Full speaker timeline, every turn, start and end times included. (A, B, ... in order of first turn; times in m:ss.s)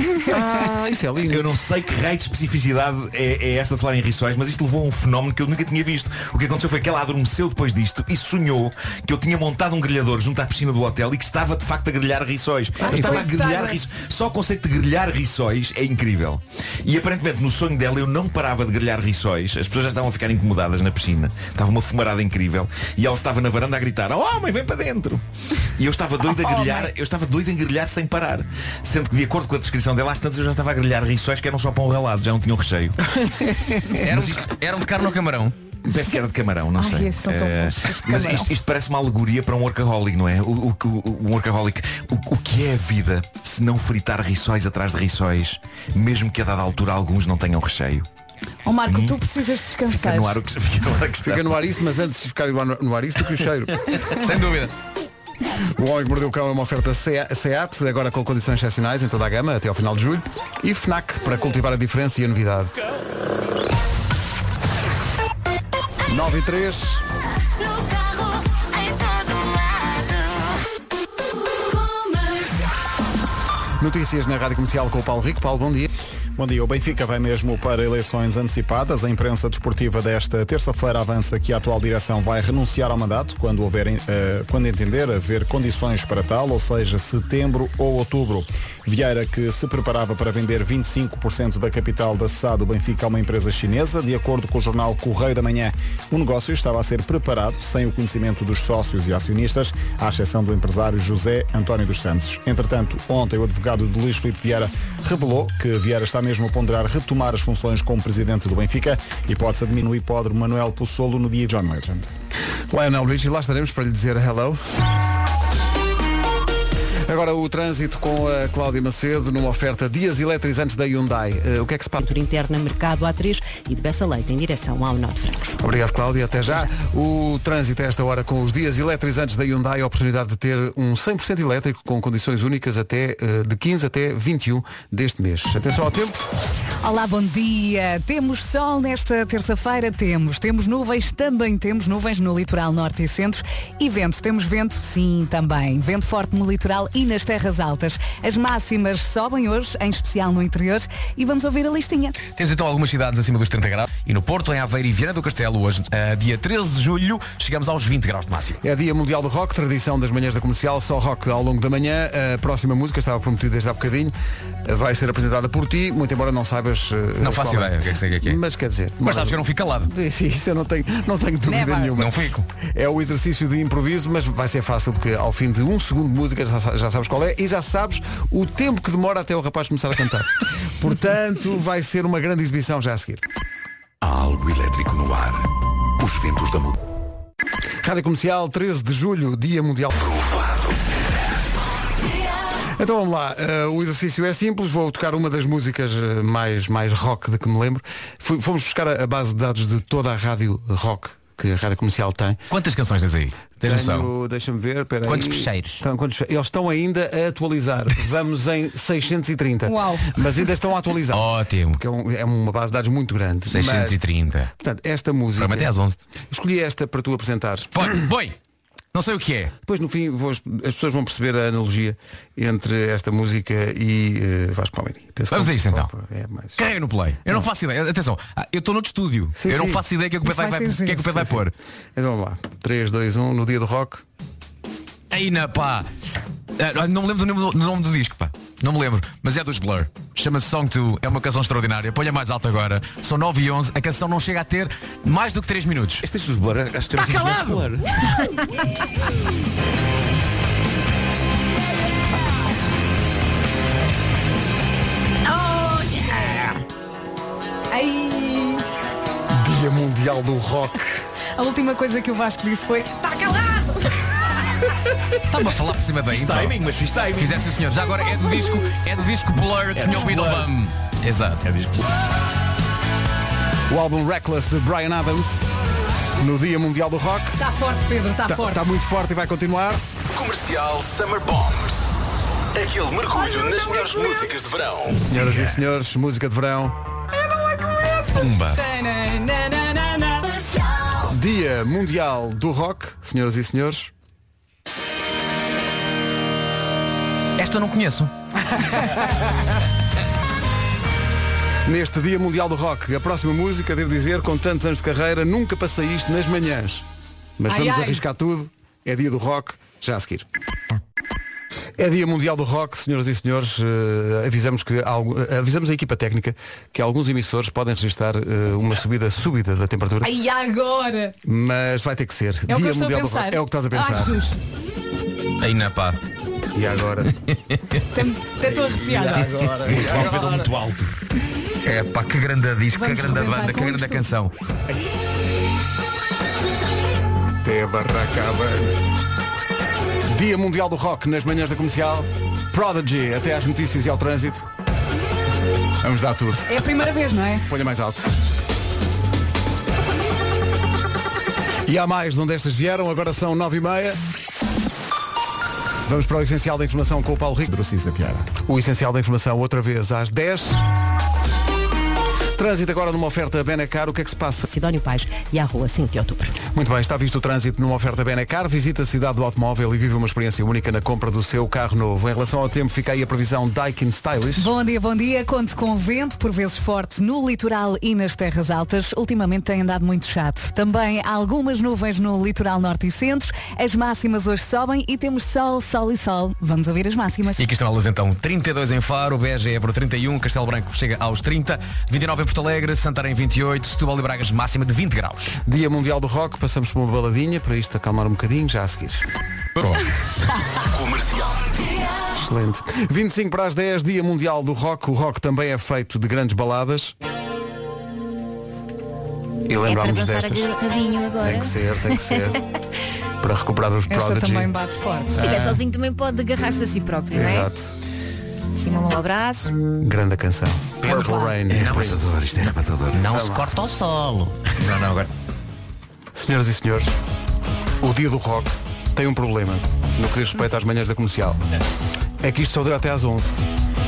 0:00.2-0:01.5 A
0:01.2-0:33.0 B
0:12.8-0:13.8 C
0:12.9-0:13.2 A
0:26.4-0:26.9 C
0:33.9-0:35.5 D
0:34.1-0:34.5 B
0:35.8-0:48.0 B
0:36.7-0:38.5 C
0:48.6-0:50.4 C
0:48.8-0:49.2 B
0:49.9-0:51.6 B
0:51.2-0:53.8 A
0:54.1-0:54.7 D
0:55.6-1:02.7 A
1:06.1-1:07.0 A
1:13.8-1:15.9 A
1:16.4-1:52.1 E
1:52.7-1:54.6 A
1:57.0-2:02.0 A
2:02.0-2:05.6 F
2:05.6-2:16.2 A
2:16.8-2:32.2 C
2:32.2-2:38.6 D
2:38.6-3:03.2 A
2:47.2-2:48.4 D
2:49.0-2:49.9 D
2:51.5-2:52.0 C
2:51.9-2:52.4 D
3:04.0-3:05.3 G
3:06.0-3:06.5 G
3:07.8-3:10.2 A
3:12.8-3:22.4 A
3:22.5-3:24.1 D
3:23.6-3:34.0 A
3:25.0-3:25.8 D
3:29.6-3:30.2 C
3:31.1-3:31.8 D
3:33.5-3:34.5 D
3:34.6-3:35.7 A
3:35.4-3:36.0 D
3:36.3-3:37.9 A
3:37.8-3:38.3 D
3:38.9-3:39.5 D
3:39.6-3:46.6 A
3:45.3-3:45.9 D
3:46.6-3:51.5 D
3:49.4-3:49.8 A
3:50.2-3:51.1 C
3:51.1-3:51.4 A
3:52.0-3:54.0 A
3:55.1-3:55.9 D
3:56.6-4:06.0 D
4:06.0-4:07.9 B
4:07.0-4:07.6 D
4:15.4-4:16.1 C
4:17.7-4:18.6 C
4:19.3-4:21.0 A
4:21.4-4:24.0 C
4:25.3-4:26.6 D
4:26.1-4:27.4 B
4:27.1-4:31.4 D
4:29.7-4:30.5 B
4:31.4-4:31.9 B
4:33.7-4:35.4 A
4:36.2-4:37.4 A
4:37.4-4:38.7 C
4:38.2-4:39.8 A
4:40.1-4:42.0 G
4:42.5-4:45.0 G
4:45.0-4:46.8 A
4:45.1-4:45.5 D
4:47.3-4:50.2 C
4:48.1-4:48.6 D
4:51.0-4:53.9 A
4:57.4-4:58.1 D
5:01.6-5:06.8 A
5:07.4-5:10.2 A
5:07.5-5:08.0 C
5:11.8-5:20.1 A
5:20.0-5:21.1 C
5:21.2-5:24.2 A
5:22.5-5:24.4 C
5:25.4-5:26.0 D
5:26.5-5:27.1 A
5:27.3-5:27.8 D
5:27.9-5:30.1 C
5:28.4-5:30.5 A
5:29.6-5:30.9 B
5:31.6-5:34.3 D
5:32.7-5:34.1 C
5:37.4-5:38.7 A
5:40.0-5:44.5 A
5:45.8-5:46.6 A
5:46.5-5:47.5 C
5:47.5-5:48.1 A
5:51.6-5:54.0 A
5:55.8-5:57.5 A
5:57.5-5:58.3 E
5:58.4-6:00.7 A
6:02.3-6:04.4 A
6:04.4-6:06.4 F
6:06.5-6:14.5 A
6:14.4-6:27.4 C
6:27.4-6:35.4 D
6:35.4-6:39.0 A
6:39.6-6:39.9 D
6:40.7-6:41.5 G
6:42.1-6:46.9 A
6:49.5-6:50.5 A
6:49.6-6:51.5 H
6:51.2-6:52.4 A
6:53.2-6:54.5 A
6:53.9-6:55.3 C
6:55.1-6:55.6 A
6:55.1-6:57.5 H
6:57.1-6:57.7 A
6:58.5-6:59.6 H
6:59.8-7:02.2 A
7:00.8-7:01.4 C
7:01.5-7:03.1 B
7:02.9-7:04.3 D
7:03.0-7:03.5 A
7:04.6-7:05.1 B
7:06.1-7:06.9 A
7:07.8-7:11.4 A
7:12.2-7:13.3 A